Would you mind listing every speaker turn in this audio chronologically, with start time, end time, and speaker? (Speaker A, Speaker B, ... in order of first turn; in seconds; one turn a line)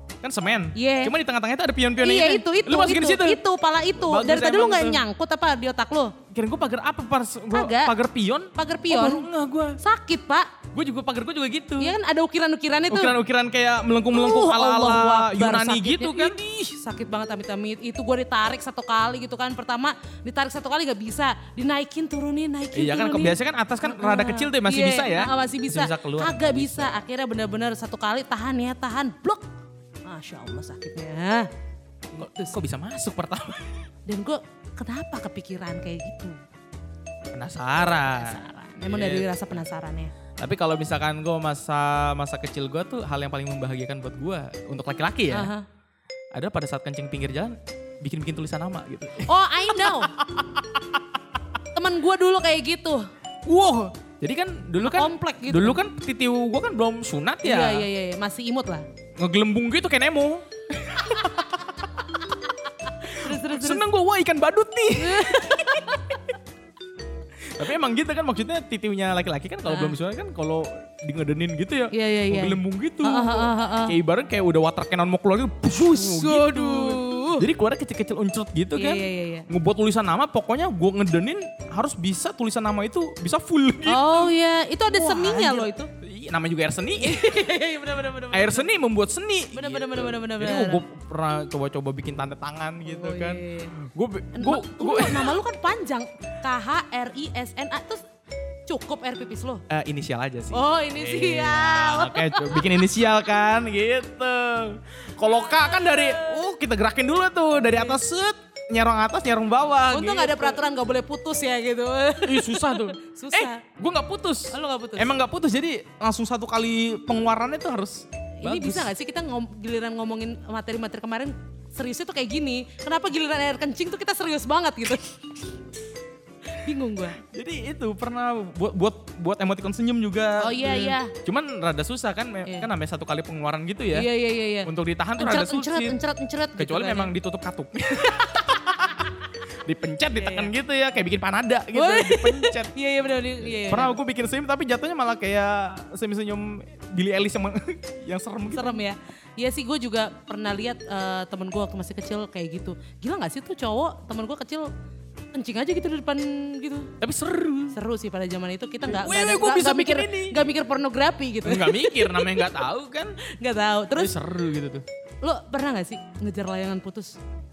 Speaker A: 0.2-3.4
Speaker B: 0.7-1.1
Speaker B: 2.0-6.1
Speaker A: 3.9-5.0
Speaker A: 6.3-9.8
Speaker B: 7.5-7.9
Speaker B: 8.5-9.3
Speaker B: 9.8-10.5
Speaker A: 10.7-11.9
Speaker B: 11.8-13.2
Speaker A: 12.9-16.4
Speaker B: 14.1-29.4
Speaker A: 22.7-27.0
Speaker B: 30.0-31.5
Speaker B: 32.1-32.6
Speaker A: 32.2-33.8
Speaker B: 34.1-36.4
Speaker A: 37.3-39.7
Speaker B: 38.1-40.1
Speaker A: 40.4-45.5
Speaker B: 45.3-45.6
Speaker A: 46.3-51.0
Speaker B: 49.2-50.1
Speaker B: 51.7-53.0
Speaker A: 53.5-57.9
Speaker B: 54.8-55.8
Speaker B: 57.4-58.8
Speaker A: 59.2-62.3
Speaker B: 62.8-63.8
Speaker A: 63.0-66.2
Speaker B: 65.0-66.3
Speaker A: 67.5-84.3
Speaker B: 69.7-69.9
Speaker B: 71.9-74.0
Speaker B: 75.7-77.5
Speaker B: 78.8-79.5
Speaker B: 83.8-85.9
Speaker A: 84.9-87.5
Speaker B: 87.0-88.7
Speaker A: 88.3-95.3
Speaker B: 89.5-90.8
Speaker B: 92.8-93.7
Speaker B: 94.3-98.0
Speaker B: 98.7-99.6
Speaker A: 99.7-110.6
Speaker B: 100.5-102.8
Speaker B: 105.5-106.3
Speaker B: 107.7-108.0
Speaker B: 109.9-113.6
Speaker A: 112.2-118.9
Speaker B: 114.5-115.1
Speaker B: 118.4-125.6
Speaker B: 126.5-127.2
Speaker A: 127.1-134.1
Speaker B: 130.4-131.1
Speaker B: 133.9-137.1
Speaker A: 134.6-135.9
Speaker A: 136.6-142.7
Speaker B: 138.2-139.1
Speaker B: 140.1-140.5
Speaker B: 141.7-144.0
Speaker A: 143.4-148.8
Speaker B: 148.5-154.7
Speaker B: 155.3-156.9
Speaker A: 157.0-157.8
Speaker B: 157.7-162.6
Speaker A: 158.8-160.4
Speaker A: 161.4-163.2
Speaker B: 163.2-164.1
Speaker A: 163.9-164.8
Speaker B: 165.2-167.2